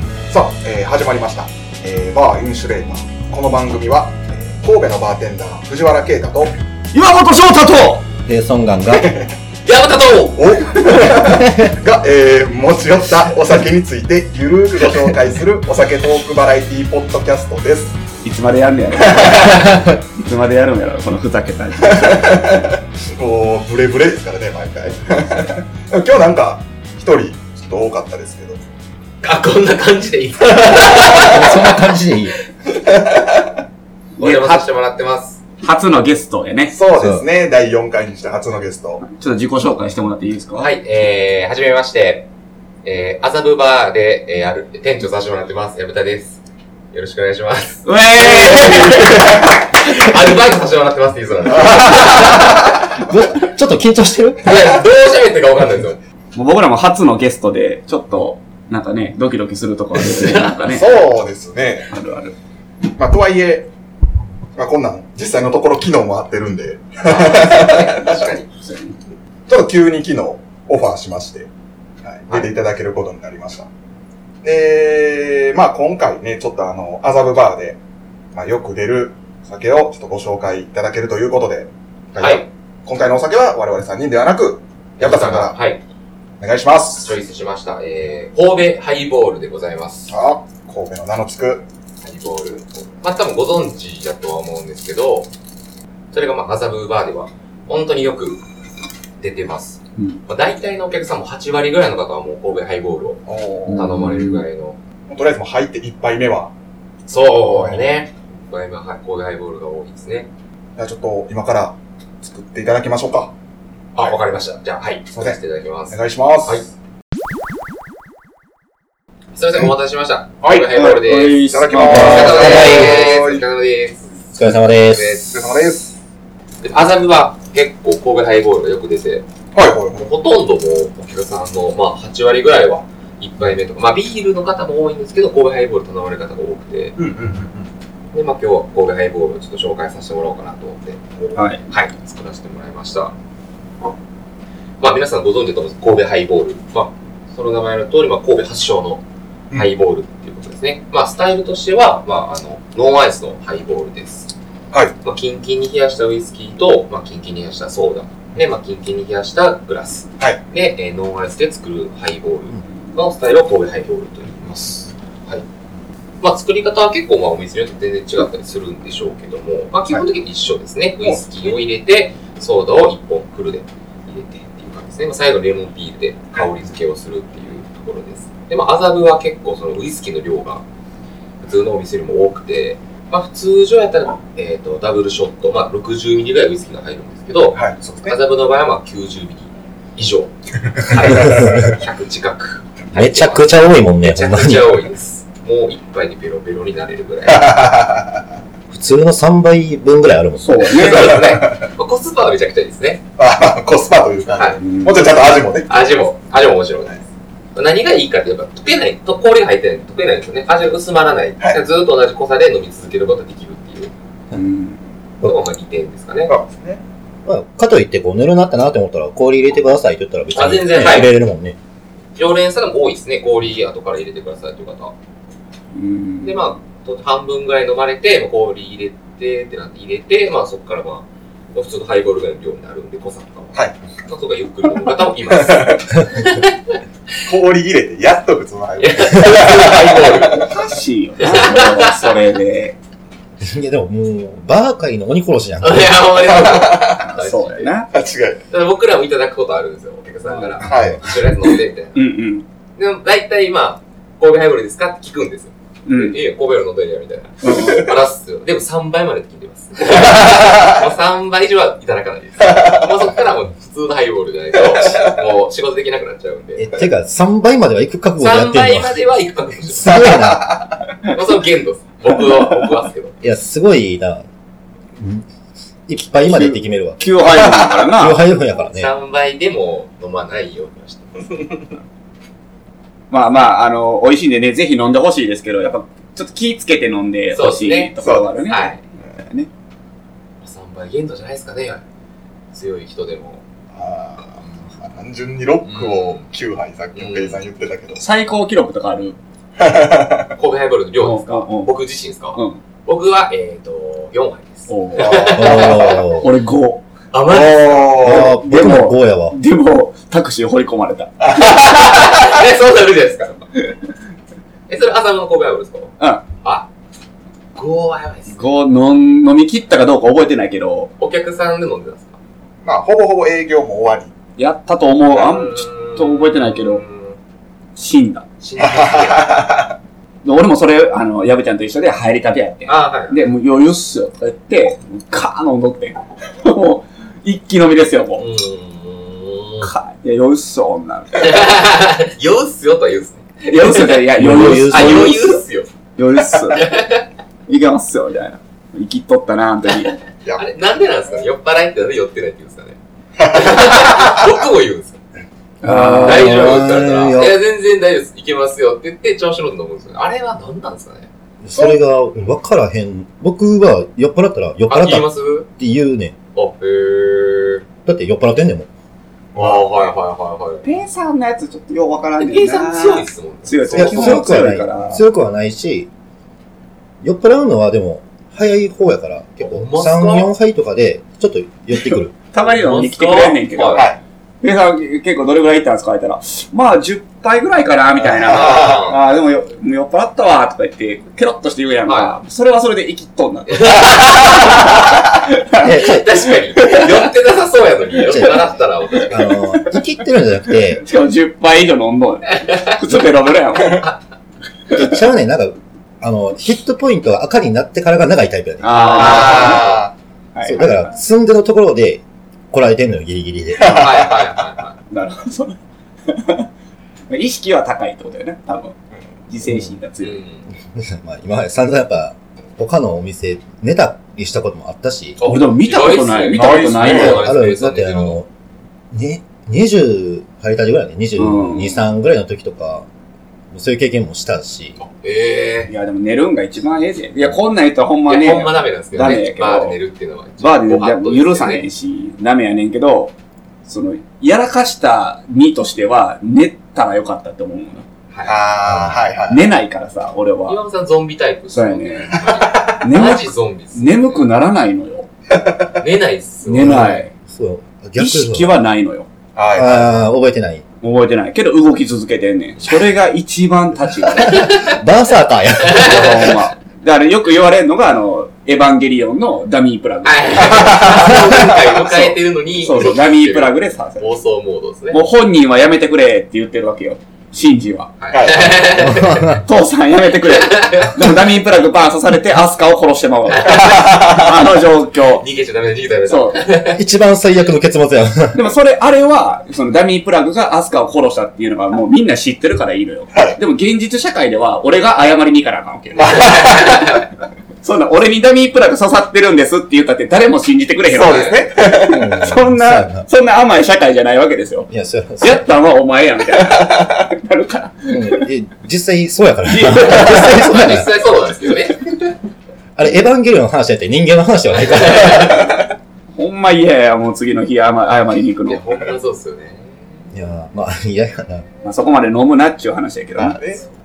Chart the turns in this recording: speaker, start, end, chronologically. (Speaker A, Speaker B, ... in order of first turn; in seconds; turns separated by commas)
Speaker A: 0.3-6.6, Speaker B: 6.9-8.0, Speaker C: 8.2-9.2, Speaker A: 8.9-9.3, Speaker D: 9.6-11.0, Speaker A: 10.3-18.0, Speaker C: 11.2-11.7, Speaker B: 18.2-22.3, Speaker A: 19.0-19.9, Speaker A: 21.8-28.6, Speaker D: 29.2-31.9, Speaker C: 31.1-32.4, Speaker A: 32.7-33.6, Speaker B: 34.2-34.6, Speaker D: 34.2-35.4, Speaker B: 35.6-36.8, Speaker A: 36.7-39.0, Speaker C: 37.0-37.2, Speaker B: 39.0-40.7, Speaker D: 40.6-42.3, Speaker D: 42.8-46.4, Speaker D: 46.9-52.9, Speaker B: 47.8-49.4, Speaker A: 48.6-49.0, Speaker A: 51.5-52.6, Speaker C: 53.0-54.7, Speaker D: 54.4-56.0, Speaker B: 56.3-61.0, Speaker A: 60.6-61.9, Speaker B: 61.9-62.3, Speaker A: 63.0-63.7, Speaker A: 64.5-68.3, Speaker D: 67.0-68.5, Speaker B: 68.5-69.0, Speaker A: 69.5-71.5, Speaker A: 72.0-73.7, Speaker A: 74.4-77.8, Speaker A: 78.3-85.6, Speaker D: 82.2-82.5, Speaker D: 85.0-85.8, Speaker A: 86.4-87.1, Speaker D: 87.0-90.1, Speaker A: 90.1-91.6, Speaker D: 92.0-95.3, Speaker D: 96.1-98.4, Speaker D: 99.2-104.8, Speaker A: 103.3-103.9, Speaker B: 103.7-104.5, Speaker A: 105.1-106.5, Speaker D: 107.1-110.3, Speaker A: 107.5-108.0, Speaker A: 110.8-113.3, Speaker D: 113.9-116.7, Speaker A: 115.1-115.4, Speaker A: 115.9-116.6, Speaker D: 119.3-125.4, Speaker A: 120.4-123.4, Speaker B: 120.6-122.8, Speaker C: 121.9-123.0, Speaker C: 124.3-125.2, Speaker A: 125.3-126.0, Speaker D: 126.6-129.2, Speaker A: 129.5-130.1, Speaker D: 130.0-137.0, Speaker A: 137.0-137.7, Speaker D: 138.1-143.1, Speaker B: 141.3-141.6, Speaker D: 144.8-154.3, Speaker D: 155.0-164.5, Speaker A: 164.4-164.9, Speaker D: 166.2-180.6, Speaker D: 181.4-197.5, Speaker A: 187.5-188.2, Speaker A: 190.8-191.7, Speaker C: 192.9-194.8, Speaker A: 197.3-198.2, Speaker C: 198.7-200.6, Speaker B: 200.4-201.2, Speaker D: 200.7-203.0, Speaker A: 200.8-201.7, Speaker A: 203.2-205.8, Speaker D: 204.3-204.6, Speaker B: 204.6-205.2, Speaker D: 205.7-207.0, Speaker D: 207.5-213.9, Speaker B: 214.3-214.8, Speaker D: 215.2-216.3, Speaker A: 216.3-216.8, Speaker C: 217.2-221.6, Speaker D: 220.3-221.1, Speaker D: 222.1-224.9, Speaker B: 225.7-226.4, Speaker D: 226.2-236.7, Speaker A: 235.3-236.0, Speaker A: 237.2-240.5, Speaker D: 238.8-240.6, Speaker B: 240.3-242.8, Speaker D: 241.2-242.1, Speaker C: 243.4-246.2, Speaker D: 245.6-247.7, Speaker A: 246.2-247.1, Speaker B: 247.1-247.9, Speaker A: 247.9-248.4, Speaker D: 248.5-252.0, Speaker B: 250.3-250.6, Speaker A: 250.6-251.1, Speaker B: 251.9-252.4, Speaker D: 252.8-266.6, Speaker B: 255.8-256.2, Speaker B: 257.4-257.9, Speaker A: 260.3-260.7, Speaker C: 266.5-269.0, Speaker D: 268.2-270.1, Speaker C: 269.7-270.5, Speaker A: 269.8-270.8, Speaker D: 271.0-273.1, Speaker C: 273.2-274.2, Speaker C: 275.0-275.2, Speaker C: 275.9-277.0, Speaker B: 276.1-278.2, Speaker C: 277.9-278.9, Speaker D: 278.5-281.8, Speaker B: 283.1-289.5, Speaker D: 287.3-288.8, Speaker A: 288.0-288.3, Speaker D: 290.4-291.8, Speaker D: 292.5-293.4, Speaker A: 293.7-298.0, Speaker D: 295.6-296.2, Speaker D: 296.9-297.4, Speaker B: 298.0-299.2, Speaker A: 299.6-300.4, Speaker D: 300.4-306.2, Speaker B: 301.0-301.8, Speaker B: 302.3-302.6, Speaker B: 304.7-305.3, Speaker A: 305.0-305.8, Speaker C: 305.3-306.3, Speaker B: 306.1-306.8, Speaker D: 307.1-308.2, Speaker A: 307.2-308.4, Speaker C: 308.0-309.4, Speaker B: 308.2-311.1, Speaker A: 311.2-311.9, Speaker D: 311.3-313.5, Speaker D: 314.7-316.7, Speaker B: 316.0-316.2, Speaker D: 317.5-318.5, Speaker B: 318.3-320.9, Speaker D: 321.0-322.1, Speaker A: 322.6-324.1, Speaker B: 324.4-326.8, Speaker D: 325.1-327.2, Speaker B: 327.8-328.2, Speaker D: 328.4-329.3, Speaker A: 328.6-329.7, Speaker B: 330.2-338.2, Speaker D: 332.7-333.2, Speaker D: 338.2-339.7, Speaker B: 339.6-341.6, Speaker D: 341.2-345.7, Speaker B: 343.4-345.4, Speaker C: 344.1-345.3, Speaker B: 346.0-346.8, Speaker D: 346.5-347.1, Speaker B: 347.5-349.9, Speaker D: 350.4-352.8, Speaker A: 353.2-354.3, Speaker D: 353.3-355.0, Speaker B: 355.6-356.6, Speaker C: 355.6-357.4, Speaker D: 356.0-361.1, Speaker C: 361.4-366.1, Speaker A: 361.5-361.8, Speaker D: 364.7-365.5, Speaker D: 366.3-367.6, Speaker C: 367.9-368.7, Speaker A: 369.3-369.7, Speaker D: 369.3-370.7, Speaker B: 370.6-375.0, Speaker D: 372.2-374.4, Speaker C: 373.7-375.9, Speaker C: 377.0-382.1, Speaker D: 379.4-380.3, Speaker B: 381.7-383.9, Speaker D: 382.4-383.9, Speaker A: 383.7-384.0, Speaker B: 384.4-395.9, Speaker A: 388.0-388.9, Speaker D: 388.2-389.0, Speaker D: 391.9-392.1, Speaker D: 393.5-394.7, Speaker C: 395.6-396.2, Speaker D: 395.7-399.4, Speaker B: 396.6-397.1, Speaker C: 398.0-400.8, Speaker B: 400.7-403.9, Speaker D: 403.7-403.9, Speaker C: 404.7-409.2, Speaker B: 408.6-409.7, Speaker D: 408.7-409.9, Speaker A: 408.7-409.9, Speaker B: 410.3-410.9, Speaker C: 410.4-413.9, Speaker A: 413.6-414.4, Speaker D: 413.7-414.8, Speaker B: 414.9-416.5, Speaker B: 417.1-418.8, Speaker B: 419.3-420.2, Speaker C: 419.4-419.7, Speaker D: 420.0-420.4, Speaker C: 420.7-425.3, Speaker D: 425.1-428.2, Speaker B: 425.2-427.3, Speaker A: 426.3-427.2, Speaker C: 427.1-428.3, Speaker C: 428.9-432.9, Speaker B: 431.2-431.9, Speaker C: 433.5-434.8, Speaker D: 434.8-435.7, Speaker B: 435.6-439.8, Speaker D: 438.1-441.6, Speaker B: 440.4-447.9, Speaker D: 448.1-448.4, Speaker A: 448.2-449.5, Speaker C: 448.6-449.0, Speaker B: 449.3-450.6, Speaker D: 450.5-454.2, Speaker B: 451.5-452.2, Speaker A: 452.1-452.8, Speaker B: 452.8-455.1, Speaker D: 455.8-457.0, Speaker B: 456.4-457.1, Speaker C: 457.3-458.6, Speaker B: 458.0-459.1, Speaker A: 459.3-460.0, Speaker C: 459.5-460.6, Speaker B: 460.8-464.6, Speaker D: 464.2-464.8, Speaker C: 464.4-466.3, Speaker D: 465.6-466.2, Speaker B: 465.8-471.6, Speaker D: 470.0-475.0, Speaker A: 470.4-471.7, Speaker B: 472.6-474.1, Speaker B: 474.9-477.9, Speaker D: 478.0-479.3, Speaker A: 478.1-479.0, Speaker C: 478.8-479.4, Speaker B: 479.3-485.3, Speaker D: 480.2-481.1, Speaker D: 483.3-484.0, Speaker A: 483.4-484.4, Speaker D: 485.1-486.8, Speaker B: 486.1-486.4, Speaker C: 486.7-488.4, Speaker B: 488.3-496.6, Speaker A: 495.9-497.0, Speaker B: 497.6-504.7, Speaker A: 500.9-502.1, Speaker D: 501.0-501.5, Speaker C: 501.8-503.1, Speaker C: 504.7-505.5, Speaker B: 505.2-508.2, Speaker C: 507.9-510.9, Speaker B: 509.4-510.7, Speaker D: 509.7-512.1, Speaker C: 512.8-515.5, Speaker D: 514.6-515.5, Speaker B: 516.2-518.6, Speaker D: 518.5-520.1, Speaker C: 520.1-521.5, Speaker B: 521.6-523.4, Speaker A: 523.1-523.6